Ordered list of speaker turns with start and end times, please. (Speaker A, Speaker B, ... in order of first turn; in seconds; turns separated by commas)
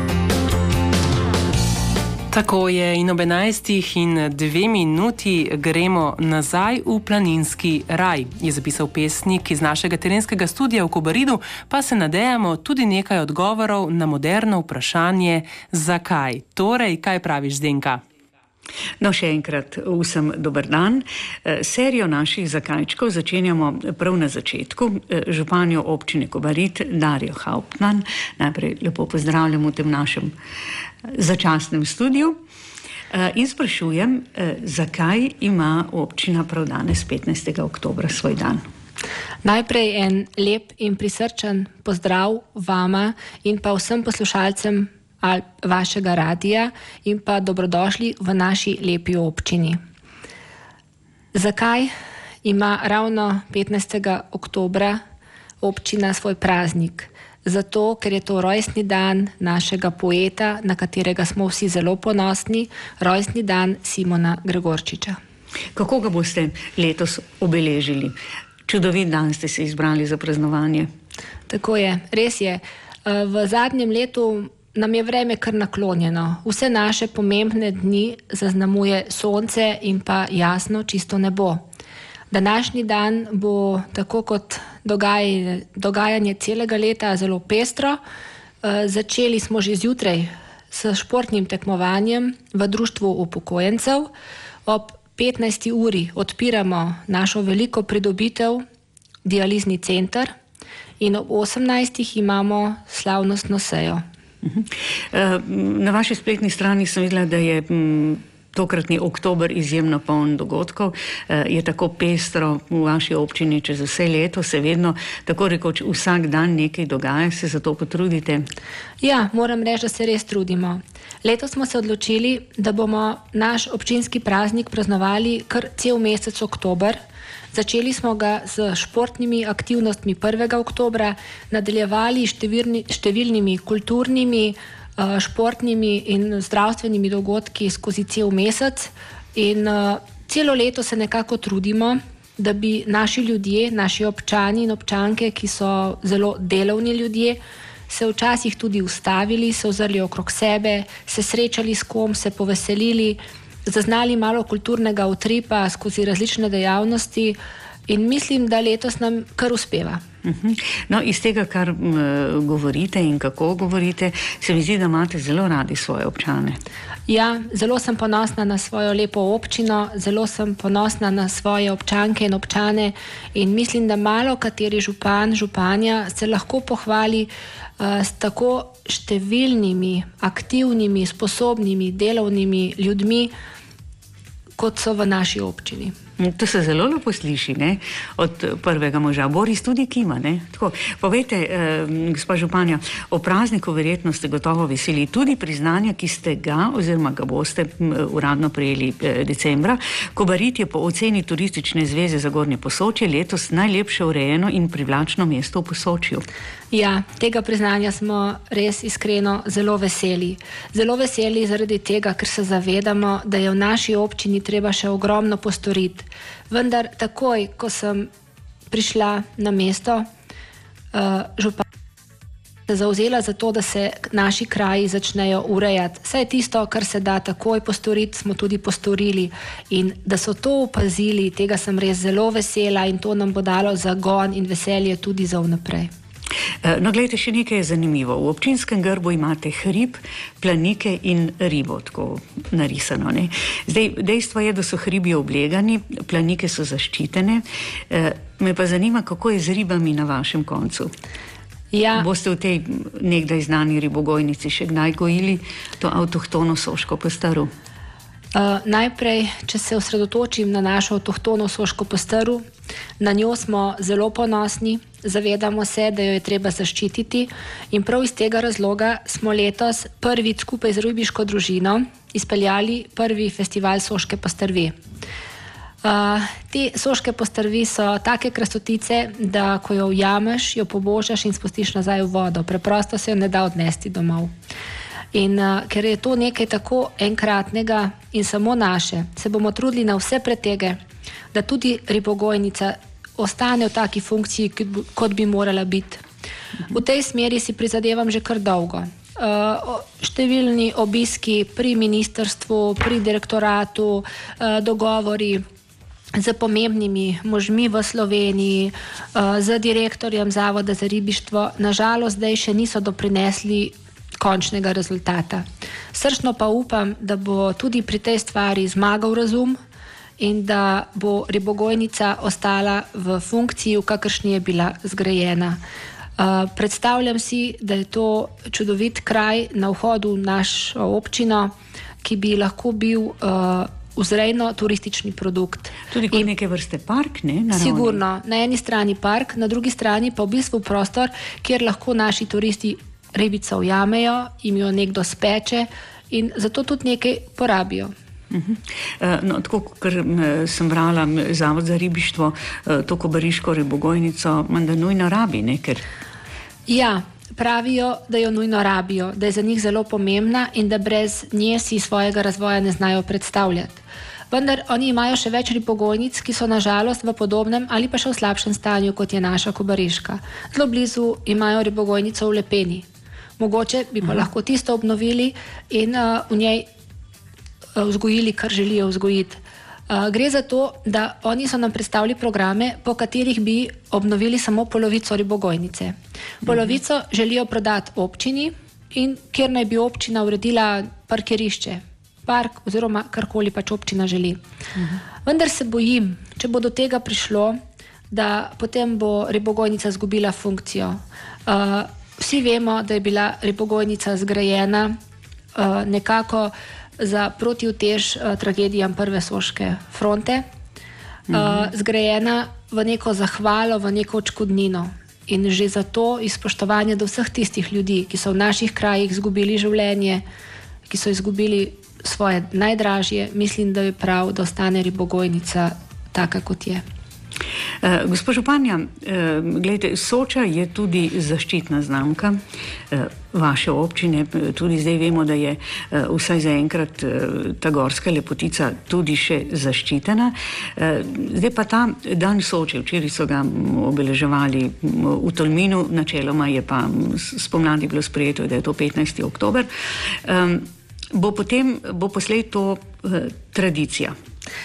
Speaker A: 2.3-18.0, Speaker B: 19.0-30.3, Speaker B: 31.1-32.4, Speaker B: 33.1-38.6, Speaker C: 39.4-49.8, Speaker C: 51.3-51.9, Speaker C: 52.4-55.0, Speaker C: 55.6-65.2, Speaker B: 65.7-70.9, Speaker C: 71.5-81.6, Speaker C: 82.3-88.0, Speaker C: 88.6-94.1, Speaker C: 94.7-98.6, Speaker C: 99.2-100.3, Speaker C: 101.0-104.0, Speaker B: 104.4-118.5, Speaker C: 119.0-127.0, Speaker C: 127.5-160.0, Speaker B: 160.2-166.6, Speaker C: 167.1-183.3, Speaker C: 184.6-185.9, Speaker B: 186.2-206.2, Speaker C: 206.7-218.1, Speaker C: 218.7-220.1, Speaker C: 220.9-221.6, Speaker C: 222.7-235.9, Speaker B: 236.6-250.9, Speaker C: 251.7-252.1, Speaker B: 251.9-257.5, Speaker C: 258.3-262.4, Speaker C: 263.0-274.8, Speaker C: 275.8-284.3, Speaker C: 285.1-290.8, Speaker C: 291.3-296.0, Speaker C: 296.7-305.4, Speaker C: 306.1-319.6, Speaker C: 320.2-325.6, Speaker C: 326.2-336.3, Speaker B: 335.9-338.0, Speaker C: 337.5-347.9, Speaker B: 348.3-355.8, Speaker C: 356.7-372.9, Speaker C: 373.4-376.6, Speaker C: 377.8-394.4, Speaker C: 395.2-397.6, Speaker C: 398.1-405.0, Speaker C: 405.6-410.4, Speaker C: 411.3-420.2, Speaker B: 411.3-411.6, Speaker C: 420.9-426.8, Speaker B: 427.8-454.1